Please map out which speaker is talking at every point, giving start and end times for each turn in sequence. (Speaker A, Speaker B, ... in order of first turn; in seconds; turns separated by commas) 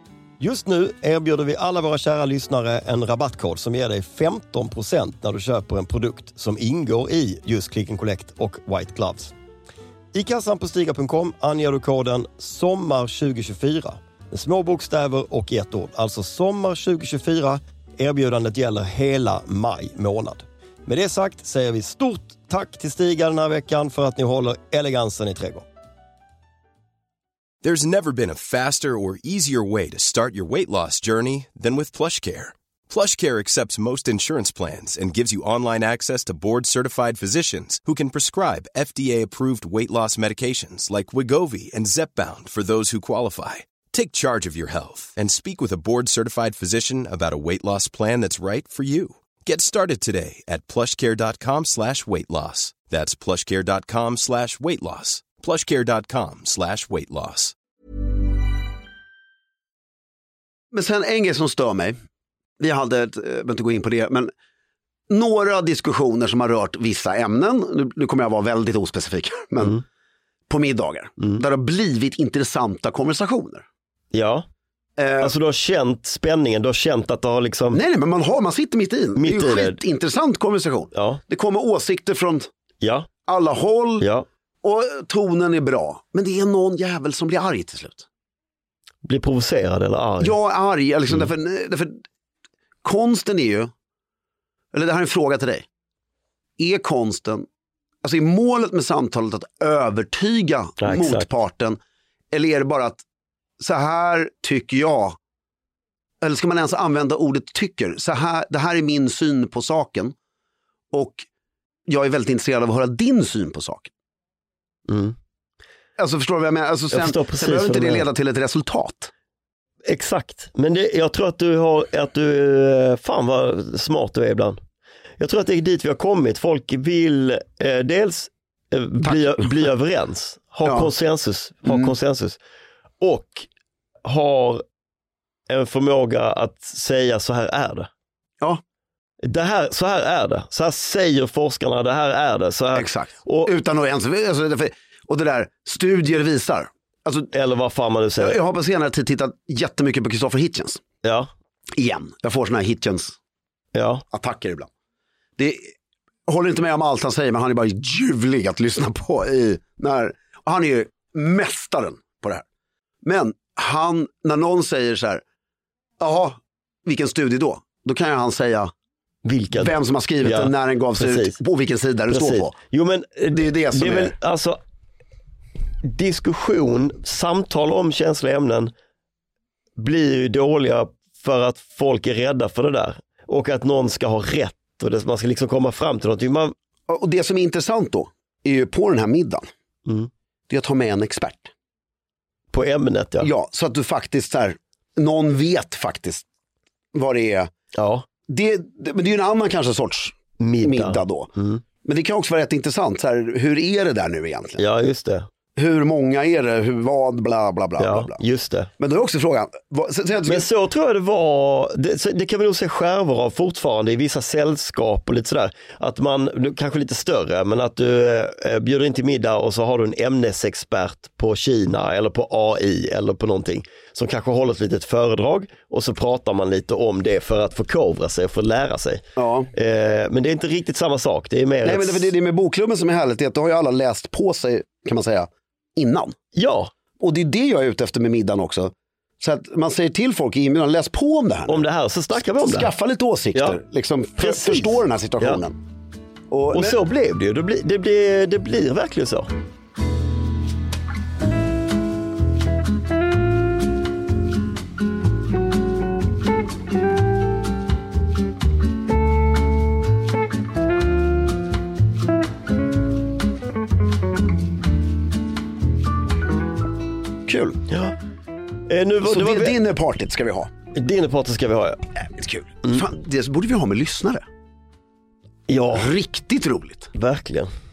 Speaker A: 0.4-9.3, Speaker A: 10.1-25.7, Speaker B: 27.6-57.6, Speaker C: 60.7-62.0, Speaker C: 62.6-64.3, Speaker C: 65.1-69.8, Speaker C: 70.5-73.7, Speaker A: 74.1-74.5, Speaker C: 75.0-75.3, Speaker A: 75.2-77.8, Speaker C: 77.7-82.5, Speaker A: 79.2-79.8, Speaker A: 80.9-81.2, Speaker A: 82.8-83.1, Speaker C: 83.3-84.1, Speaker A: 84.0-84.3, Speaker C: 84.6-88.1, Speaker A: 89.0-90.4, Speaker C: 90.2-92.0, Speaker C: 92.8-93.7, Speaker C: 94.7-95.7, Speaker C: 96.6-97.5, Speaker C: 98.0-101.8, Speaker A: 100.8-101.3, Speaker C: 102.3-103.0, Speaker C: 103.6-105.2, Speaker C: 106.2-110.1, Speaker C: 110.9-111.3, Speaker C: 111.9-113.9, Speaker A: 114.9-115.2, Speaker C: 116.0-119.1, Speaker A: 116.9-118.1, Speaker A: 119.8-124.6, Speaker A: 125.2-132.4, Speaker C: 129.0-129.6, Speaker C: 130.7-130.9, Speaker C: 131.7-131.9, Speaker A: 133.0-133.5, Speaker A: 134.1-134.6, Speaker A: 135.5-137.9, Speaker A: 139.2-143.5, Speaker C: 142.7-147.3, Speaker A: 147.3-148.4, Speaker C: 148.2-150.8, Speaker A: 151.0-151.3, Speaker C: 151.7-153.2, Speaker A: 153.7-154.0, Speaker C: 154.1-154.7, Speaker C: 155.4-155.7, Speaker C: 156.3-162.4, Speaker C: 163.0-165.2, Speaker C: 166.0-168.7, Speaker A: 169.2-171.4, Speaker C: 169.5-172.6, Speaker A: 172.1-174.6, Speaker C: 173.3-174.2, Speaker A: 175.8-178.7, Speaker A: 179.8-186.5, Speaker C: 186.9-189.5, Speaker C: 190.5-191.5, Speaker A: 192.5-193.3, Speaker C: 193.2-196.3, Speaker C: 196.9-197.5, Speaker A: 197.8-198.1, Speaker C: 198.3-201.3, Speaker A: 200.4-201.6, Speaker C: 201.8-204.6, Speaker A: 204.6-205.3, Speaker C: 205.6-208.2, Speaker A: 207.8-208.7, Speaker C: 208.8-210.5, Speaker A: 210.3-232.1, Speaker C: 229.2-229.5, Speaker C: 231.7-236.2, Speaker A: 236.3-236.7, Speaker C: 237.0-241.7, Speaker A: 241.5-242.7, Speaker C: 242.4-245.6, Speaker A: 244.2-245.4, Speaker C: 246.3-246.8, Speaker A: 246.5-249.3, Speaker C: 267.3-267.6, Speaker A: 267.7-267.9, Speaker A: 268.7-269.6, Speaker C: 269.0-270.5, Speaker A: 270.7-271.8, Speaker C: 272.0-274.2, Speaker A: 275.5-275.9, Speaker C: 275.7-276.9, Speaker A: 276.9-277.5